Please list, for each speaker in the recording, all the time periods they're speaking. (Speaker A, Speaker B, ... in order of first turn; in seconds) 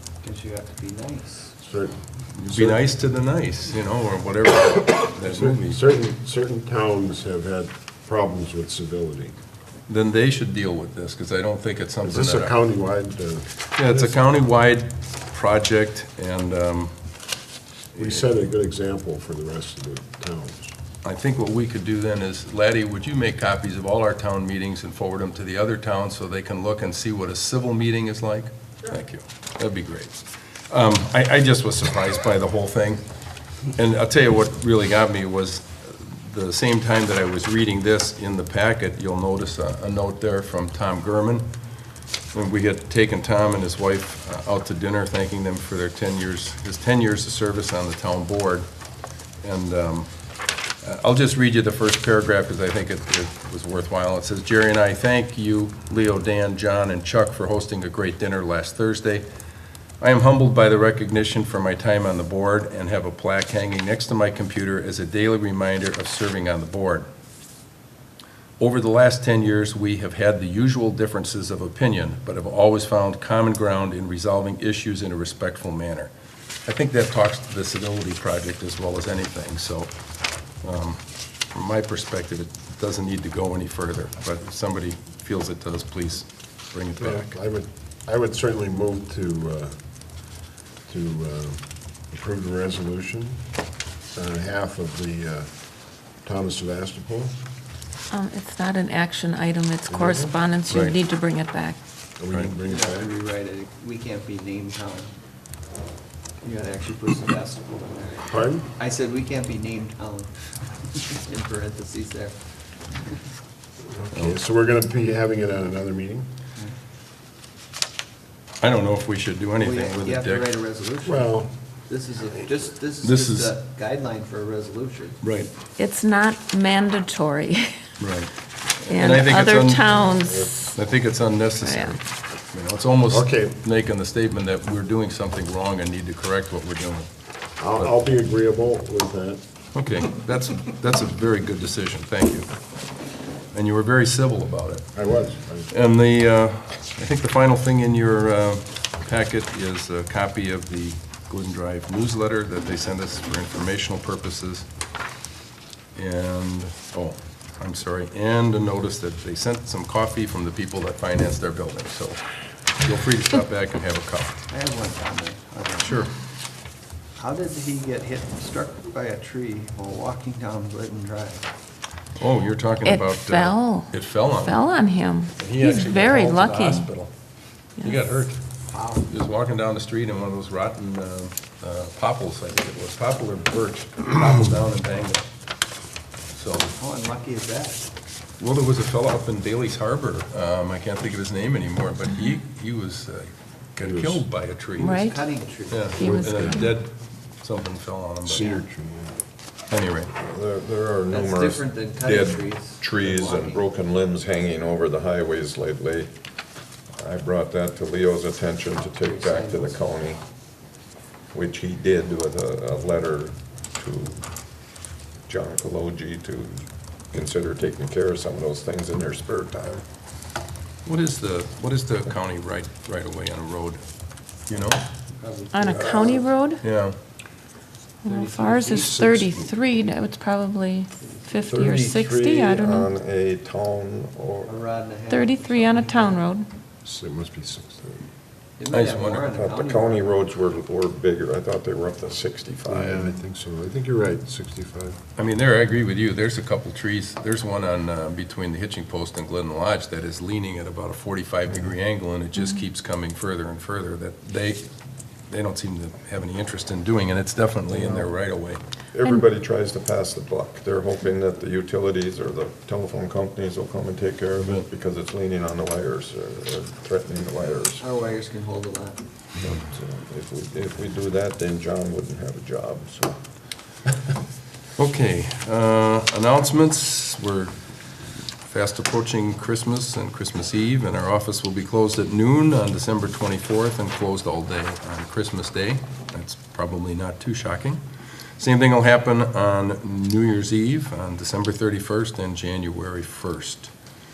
Speaker A: 0.2-1.5, 102.7-105.1, 106.4-113.2, 119.6-121.3, 121.9-125.2, 164.5-166.1, 167.2-171.5, 178.7-179.1, 186.8-187.9, 194.8-196.0, 201.1-203.7, 209.0-209.9, 224.5-226.2, 228.1-229.2, 231.0-231.3, 234.5-236.2, 238.6-240.2, 267.8-269.0
Speaker B: 1.6-2.9, 5.3-9.3, 12.0-14.2, 17.9-20.7, 87.0-93.4, 94.1-97.3, 99.9-100.4, 102.2-103.1, 108.2-108.7, 113.8-116.3, 121.0-121.5, 133.1-133.6, 137.6-139.4, 144.9-145.7, 193.8-194.2, 196.0-196.7, 198.2-199.2, 228.9-229.5, 236.8-238.0, 242.7-245.0
Speaker C: 2.4-5.8, 9.9-12.6, 13.8-16.9, 18.0-18.3, 21.0-33.0, 33.7-41.5, 42.3-48.7, 49.4-50.1, 50.8-59.2, 60.0-67.1, 68.6-76.1, 76.7-79.9, 80.6-87.3, 100.7-101.0, 114.1-114.4, 118.6-120.5, 123.0-123.5, 125.2-125.5, 128.0-128.3, 128.9-137.1, 139.7-142.5, 143.5-144.9, 145.7-154.7, 155.9-162.2, 162.8-164.4, 165.8-166.1, 172.2-174.7, 175.4-177.1, 177.8-178.4, 179.1-185.2, 186.3-186.7, 188.4-195.1, 195.7-198.6, 199.7-200.1, 220.8-223.8, 224.5-224.8, 226.6-227.0, 238.7-239.2, 245.2-254.7, 255.3-258.6, 264.4-264.7, 274.8-277.6, 278.5-287.8, 288.4-293.7
Speaker D: 98.1-101.8, 125.8-127.8, 128.8-130.8, 131.6-132.0, 172.8-176.9, 194.8-195.2, 196.0-196.7, 225.5-226.6, 228.0-232.9, 235.1-236.5
Speaker E: 200.1-206.1, 207.0-210.2, 211.3-214.3, 215.3-219.8, 231.4-234.6, 239.2-243.2, 258.9-267.8, 269.4-273.2